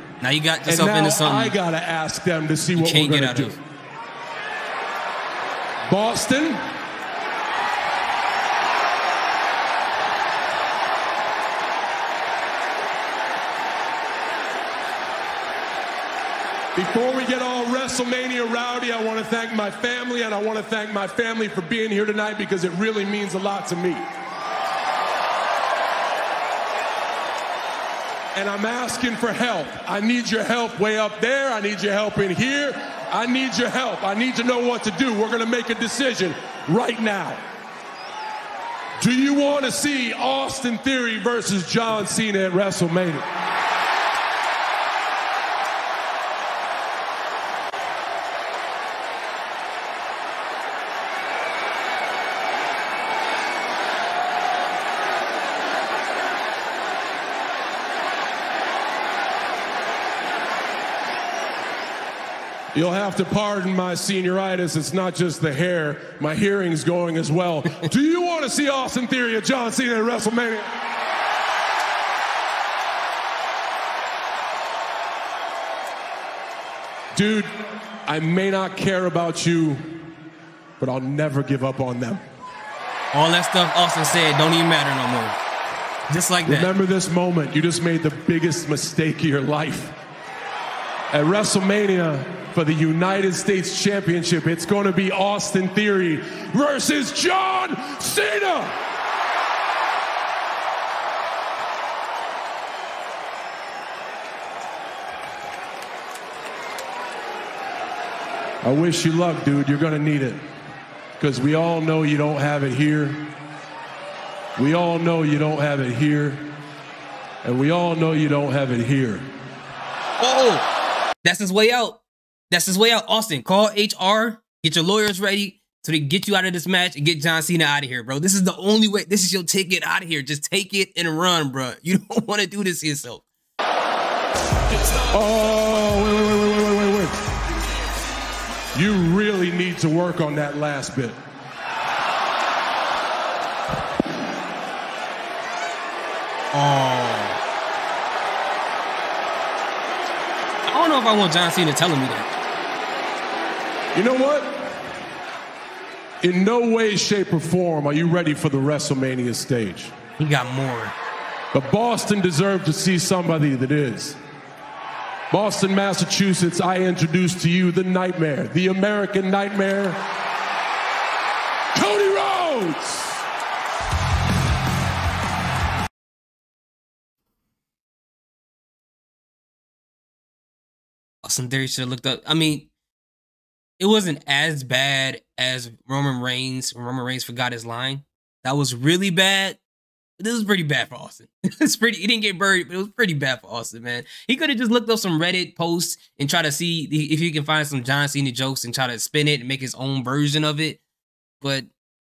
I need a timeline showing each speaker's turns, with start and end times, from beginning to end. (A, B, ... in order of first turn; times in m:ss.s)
0:00.2-0:01.6 A
0:00.7-0:03.6 B
0:02.8-0:03.6 A
0:05.8-0:06.6 B
0:16.8-0:24.0 B
0:28.4-0:37.4 B
0:39.0-0:43.3 B
1:02.7-1:10.7 B
1:17.1-1:17.5 B
1:18.1-1:20.0 B
1:20.8-1:22.2 B
1:23.1-1:25.4 A
1:26.1-1:26.7 A
1:26.4-1:30.0 B
1:31.1-1:38.8 B
1:48.6-1:50.4 B
1:51.2-1:53.3 B
1:54.6-1:56.5 B
1:57.4-1:59.2 B
2:00.2-2:00.7 A
2:01.2-2:13.2 A
2:15.1-2:17.2 B
2:18.7-2:21.2 B
2:26.5-2:27.4 A
2:30.7-2:32.3 A
2:33.9-2:34.7 B
2:36.2-2:39.9 B
2:40.2-2:41.0 A
2:41.5-2:44.2 B
2:45.3-2:50.0 B
2:51.8-2:53.2 B
3:01.2-3:02.7 A
3:03.8-3:09.6 A
3:10.2-3:20.8 A
3:21.4-3:21.7 A